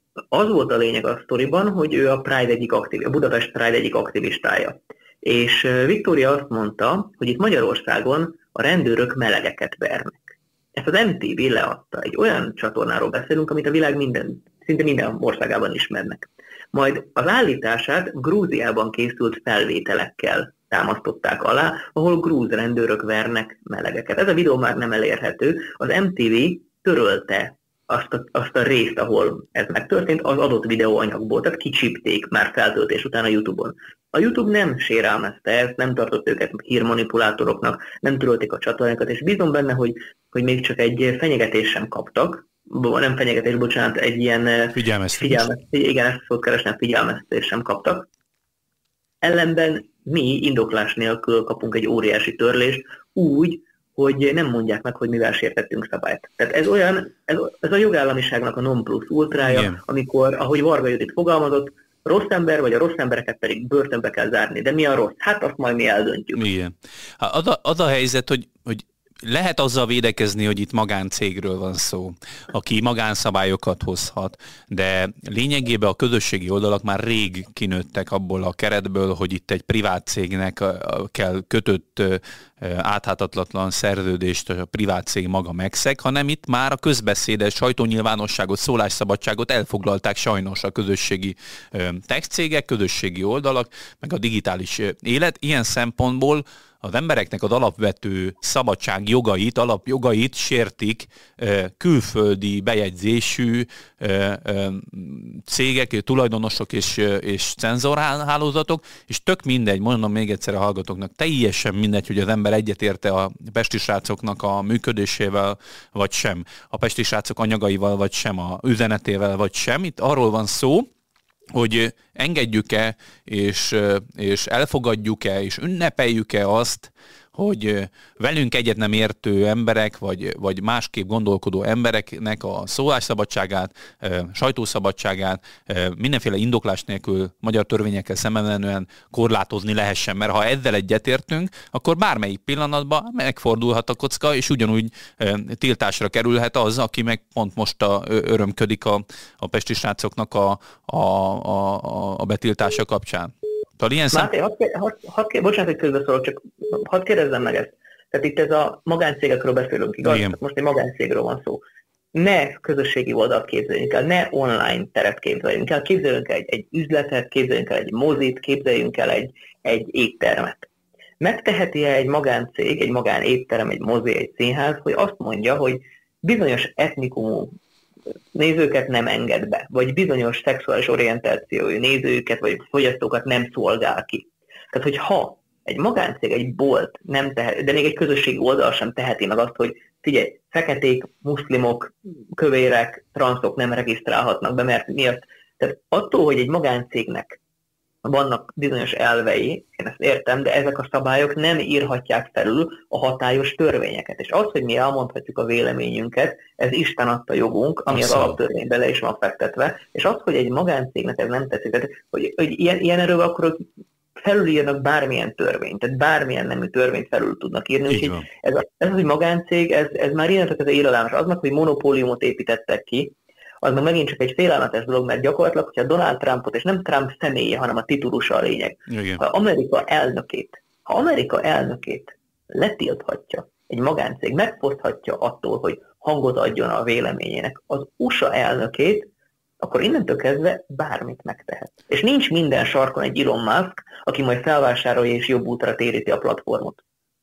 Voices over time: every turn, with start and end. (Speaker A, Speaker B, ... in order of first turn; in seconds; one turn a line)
Speaker A: 0.3-48.1
Speaker B: 44.7-45.5
Speaker A: 49.2-66.4
Speaker B: 59.4-59.8
Speaker B: 66.3-120.9
Speaker B: 121.5-154.3
Speaker A: 154.1-161.6
Speaker B: 160.0-160.4
Speaker A: 162.1-170.7
Speaker A: 171.2-177.6
Speaker A: 178.3-197.4
Speaker A: 198.0-213.6
Speaker B: 207.9-208.4
Speaker A: 214.2-239.1
Speaker B: 217.8-218.3
Speaker B: 228.9-229.2
Speaker A: 239.6-246.8